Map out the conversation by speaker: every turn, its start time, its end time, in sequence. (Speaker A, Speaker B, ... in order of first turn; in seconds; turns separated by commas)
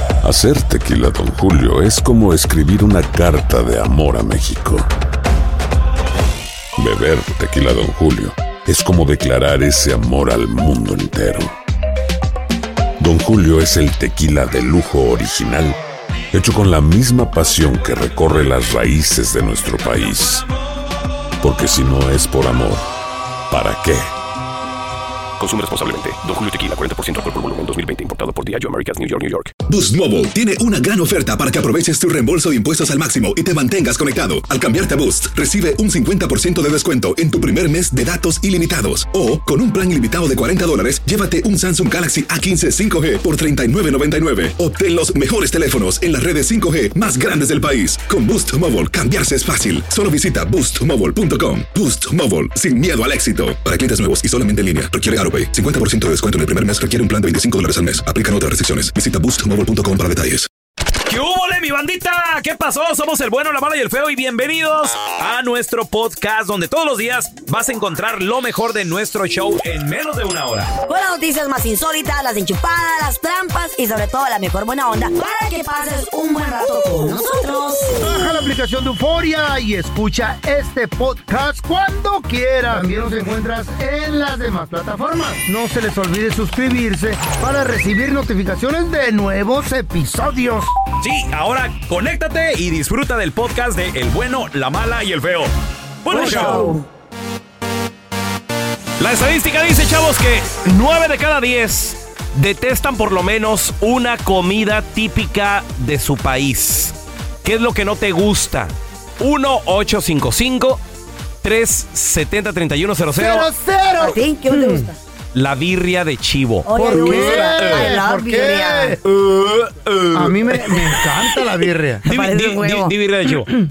Speaker A: 0.2-4.9, Speaker A: 6.8-11.5, Speaker A: 13.0-15.8, Speaker A: 16.3-20.4, Speaker A: 21.4-22.8, Speaker A: 23.5-24.1, Speaker B: 25.4-29.5, Speaker C: 29.7-60.5, Speaker D: 61.0-70.7, Speaker E: 70.8-78.0, Speaker F: 77.9-90.7, Speaker D: 91.0-95.5, Speaker D: 96.0-96.8, Speaker E: 96.1-96.8, Speaker D: 99.0-110.8, Speaker D: 111.4-113.5, Speaker F: 113.2-114.9, Speaker E: 114.0-115.0, Speaker D: 115.3-118.0, Speaker E: 116.7-119.0, Speaker F: 116.7-119.0, Speaker D: 119.0-120.8, Speaker F: 120.1-122.0, Speaker E: 122.0-122.9, Speaker D: 122.1-123.5